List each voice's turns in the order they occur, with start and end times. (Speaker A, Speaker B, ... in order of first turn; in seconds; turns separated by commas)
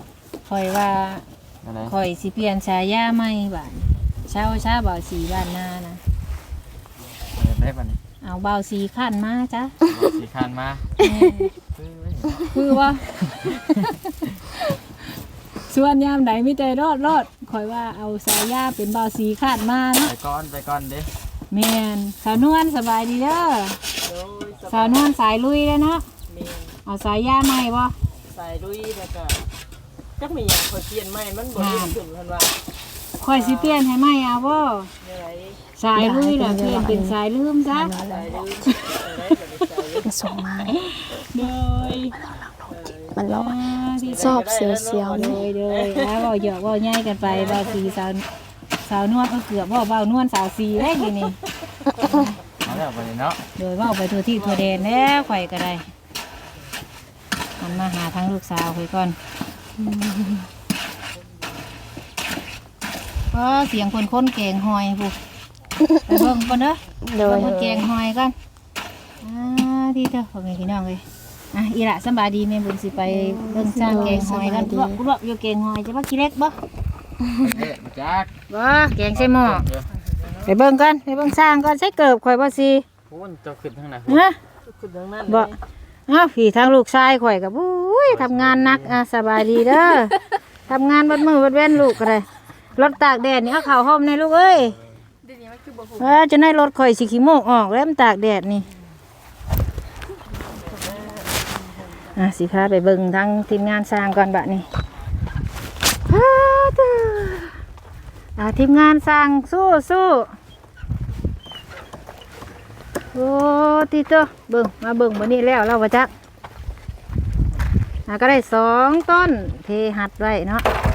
Speaker A: 0.5-1.2, Speaker B: 1.6-1.9, Speaker A: 1.9-6.0, Speaker B: 7.3-8.0, Speaker A: 8.2-9.8, Speaker B: 9.9-10.9, Speaker A: 11.0-11.5, Speaker B: 11.8-12.6, Speaker A: 12.5-13.9, Speaker A: 15.7-20.1, Speaker B: 20.0-21.1, Speaker A: 21.5-23.8, Speaker C: 24.0-25.1, Speaker A: 24.7-26.1, Speaker C: 26.3-26.7, Speaker A: 26.9-27.9, Speaker C: 28.3-29.4, Speaker C: 30.2-32.6, Speaker A: 31.6-31.9, Speaker A: 33.2-34.9, Speaker C: 33.3-33.8, Speaker C: 35.0-35.6, Speaker A: 35.8-37.9, Speaker D: 36.0-37.2, Speaker D: 37.7-38.9, Speaker C: 38.0-40.1, Speaker D: 40.0-40.8, Speaker A: 40.7-42.1, Speaker C: 41.4-42.1, Speaker D: 42.2-45.4, Speaker C: 42.7-43.2, Speaker A: 43.3-44.5, Speaker C: 44.0-46.3, Speaker A: 45.1-48.3, Speaker C: 47.2-48.0, Speaker A: 48.9-51.4, Speaker B: 52.6-53.4, Speaker A: 53.6-55.9, Speaker C: 54.4-55.3, Speaker A: 57.6-59.2, Speaker A: 63.3-65.2, Speaker D: 65.8-66.3, Speaker A: 66.1-68.3, Speaker D: 67.0-67.9, Speaker A: 69.2-76.6, Speaker D: 73.1-75.0, Speaker B: 77.4-78.3, Speaker A: 78.5-79.7, Speaker B: 79.2-79.9, Speaker A: 80.4-82.8, Speaker B: 83.1-84.2, Speaker A: 84.1-84.4, Speaker C: 84.7-85.6, Speaker A: 85.3-85.5, Speaker A: 86.1-90.2, Speaker B: 88.1-89.0, Speaker A: 90.7-94.8, Speaker A: 96.0-98.7, Speaker C: 100.9-101.3, Speaker A: 102.2-104.7, Speaker A: 106.1-107.6, Speaker A: 108.4-110.3, Speaker A: 113.1-116.1, Speaker A: 118.1-120.7